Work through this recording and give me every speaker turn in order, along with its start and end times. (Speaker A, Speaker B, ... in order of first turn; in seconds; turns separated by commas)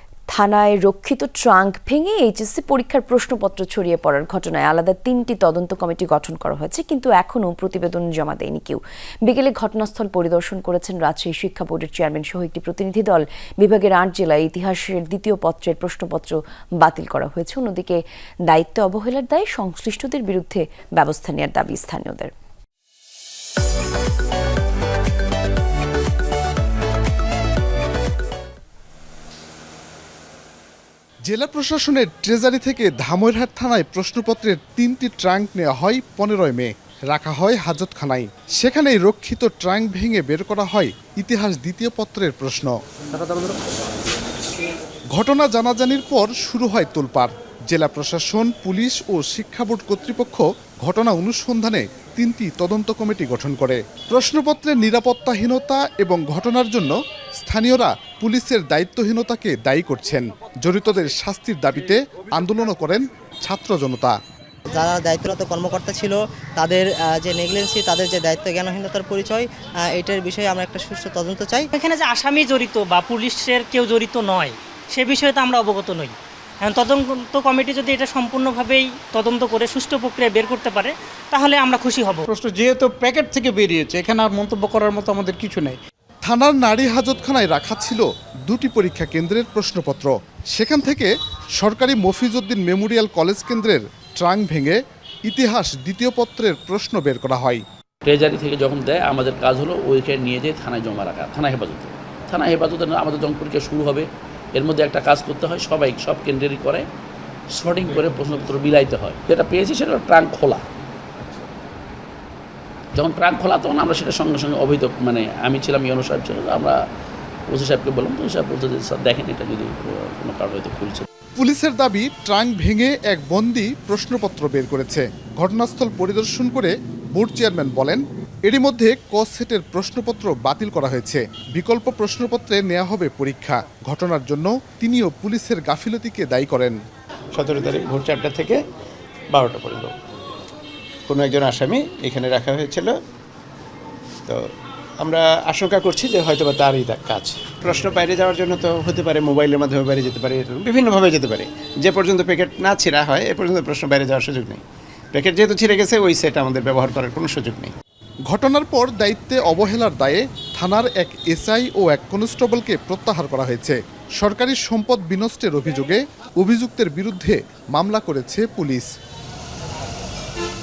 Speaker A: 0.3-22.3, Speaker B: 31.2-42.7, Speaker B: 45.1-64.2, Speaker C: 64.7-71.7, Speaker D: 71.7-82.2, Speaker E: 82.3-85.8, Speaker B: 86.2-97.6, Speaker F: 98.0-106.8, Speaker F: 107.6-110.6, Speaker F: 112.9-116.8, Speaker F: 117.5-121.1, Speaker B: 121.4-136.7, Speaker G: 137.3-138.6, Speaker G: 139.3-139.9, Speaker G: 141.1-142.9, Speaker G: 145.0-154.6, Speaker G: 155.1-157.7, Speaker B: 158.3-168.9